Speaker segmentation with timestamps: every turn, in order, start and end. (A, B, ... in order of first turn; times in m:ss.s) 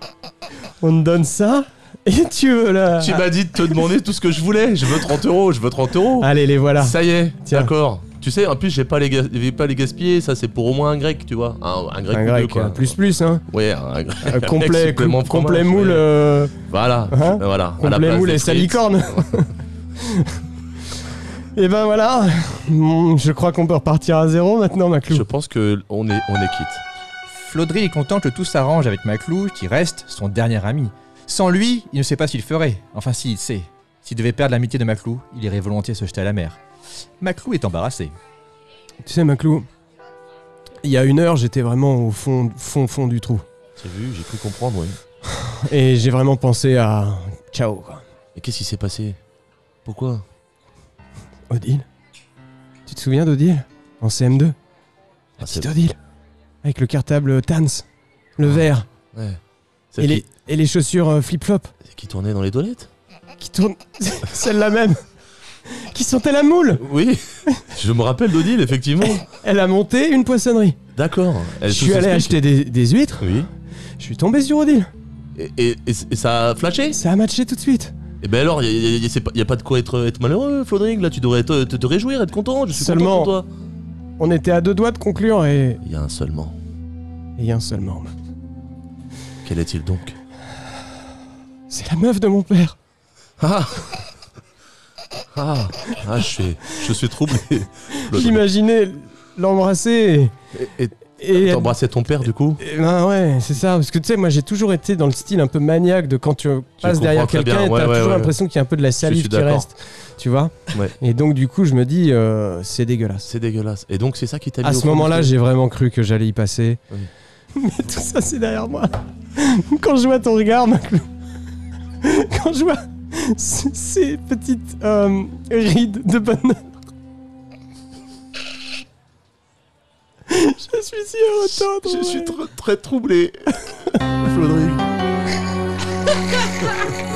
0:00.8-0:03.3 A
0:03.0-0:12.9 B
0:06.2-0:07.7 A
0:12.1-0:13.4 A
0:13.5-0:18.8 B
0:14.2-0:16.6 A
0:17.1-0:20.4 A
0:21.6-0:25.3 A
0:25.1-0:26.8 B
0:27.3-0:36.6 C
0:37.2-0:38.1 C
0:39.0-0:39.7 A
0:40.8-0:43.4 A
0:43.8-0:45.0 B
0:45.3-0:48.0 A
0:48.4-0:49.2 B
0:49.8-0:50.2 B
0:51.5-0:51.9 A
0:52.9-0:54.6 A
0:55.4-0:56.0 A
0:55.4-0:55.7 B
0:56.6-0:57.9 A
0:58.4-0:58.9 A
0:59.1-0:59.4 B
0:59.9-1:00.2 B
1:00.0-1:01.7 A
1:01.9-1:02.9 B
1:03.4-1:05.0 A
1:05.7-1:06.8 A
1:06.8-1:09.2 B
1:09.0-1:10.8 A
1:11.0-1:12.4 B
1:11.6-1:13.4 A
1:13.2-1:13.5 B
1:14.0-1:14.9 A
1:15.4-1:17.0 B
1:16.9-1:18.0 A
1:18.2-1:23.5 B
1:22.7-1:23.3 A
1:24.2-1:25.8 A
1:25.8-1:26.6 B
1:27.4-1:28.1 A
1:29.4-1:30.2 B
1:31.7-1:32.8 A
1:33.4-1:34.0 B
1:35.4-1:38.4 B
1:38.1-1:40.4 A
1:40.6-1:42.6 B
1:41.2-1:41.8 A
1:42.6-1:53.3 A
1:46.8-1:48.3 B
1:49.0-1:49.6 B
1:53.3-1:55.3 B
1:54.6-1:56.8 A
1:57.6-2:01.1 A
2:02.0-2:06.7 A
2:10.3-2:12.4 A
2:11.8-2:14.8 B